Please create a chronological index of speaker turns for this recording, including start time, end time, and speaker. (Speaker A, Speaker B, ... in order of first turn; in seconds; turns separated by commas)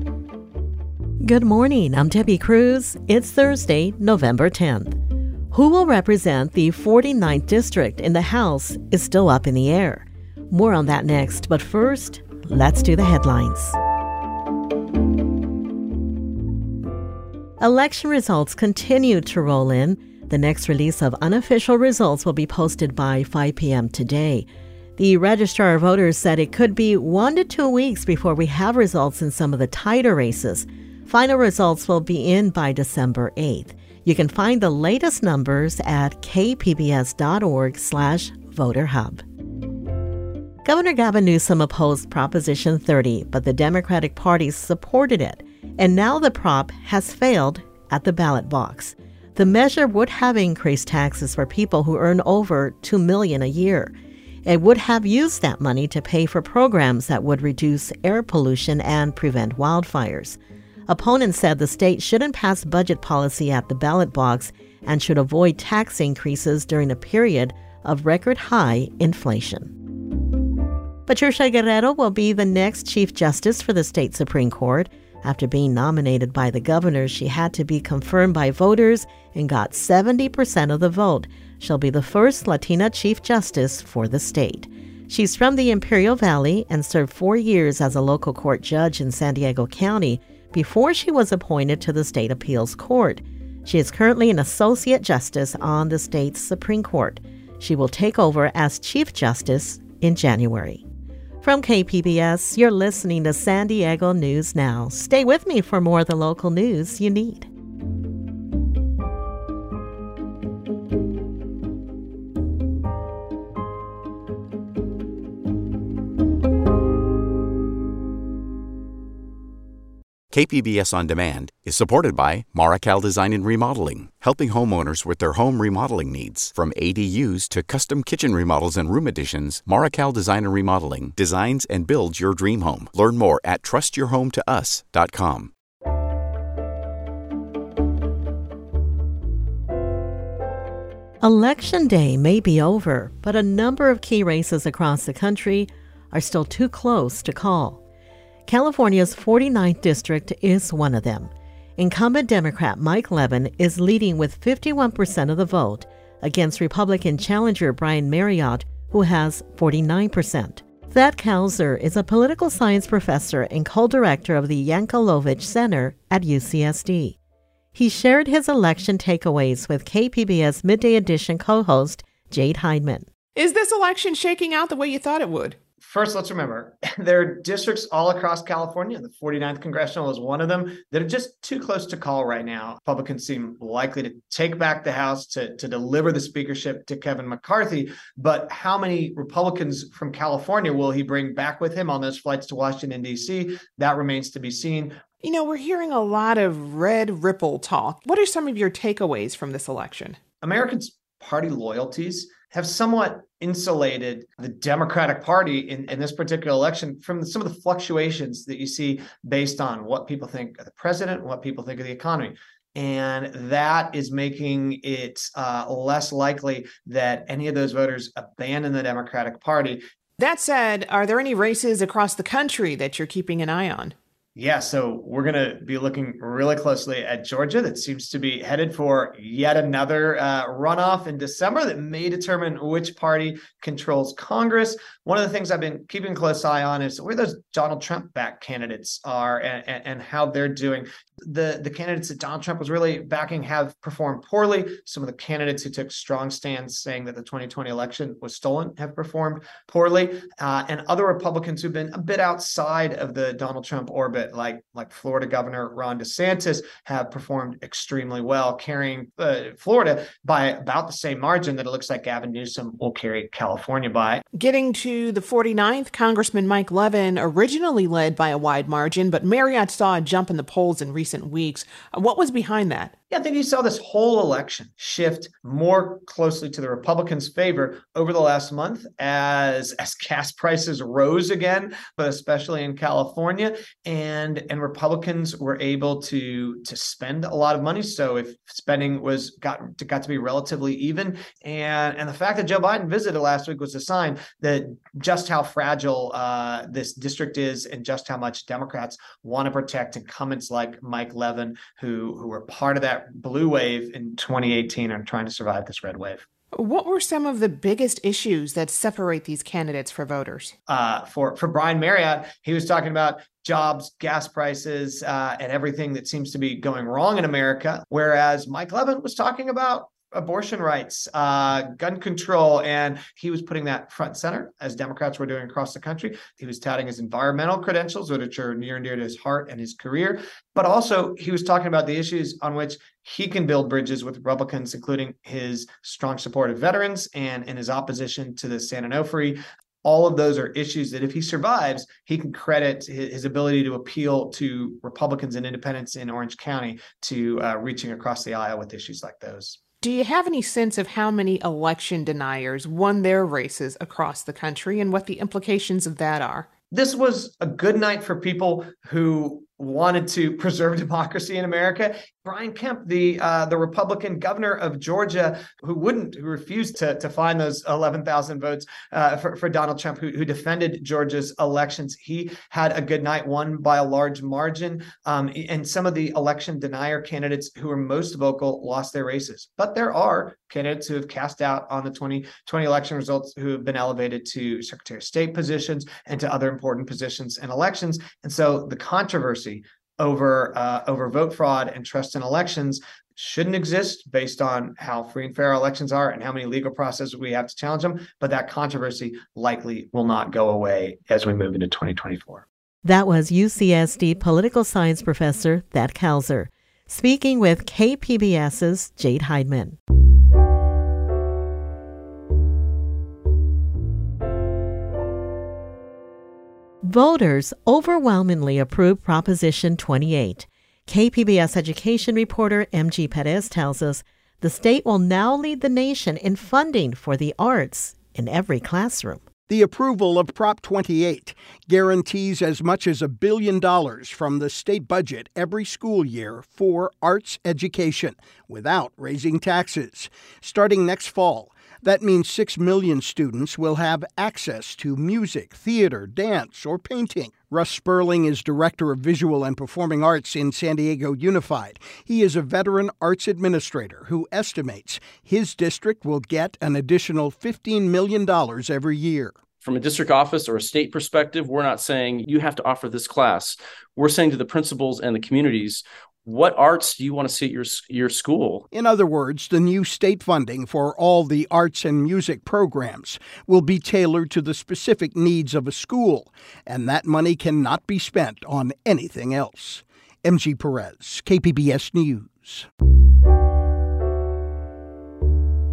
Speaker A: 1.2-5.0, Speaker A: 5.5-13.8, Speaker A: 17.6-39.2, Speaker A: 40.6-54.0, Speaker A: 54.5-69.7, Speaker A: 71.1-100.8, Speaker A: 101.4-107.5, Speaker B: 120.3-135.5, Speaker A: 141.2-147.8, Speaker A: 148.5-167.2, Speaker A: 167.8-173.1, Speaker C: 173.3-175.6, Speaker D: 175.8-195.0, Speaker C: 195.2-200.2, Speaker D: 200.4-219.8, Speaker C: 220.2-223.9, Speaker D: 224.4-264.2, Speaker C: 264.3-272.9, Speaker D: 273.1-306.2, Speaker C: 306.5-310.5, Speaker D: 310.7-349.6, Speaker C: 349.8-356.5, Speaker D: 356.7-402.4, Speaker A: 402.8-409.8, Speaker A: 416.8-429.2, Speaker E: 429.5-459.4, Speaker F: 459.6-468.6, Speaker E: 468.7-482.7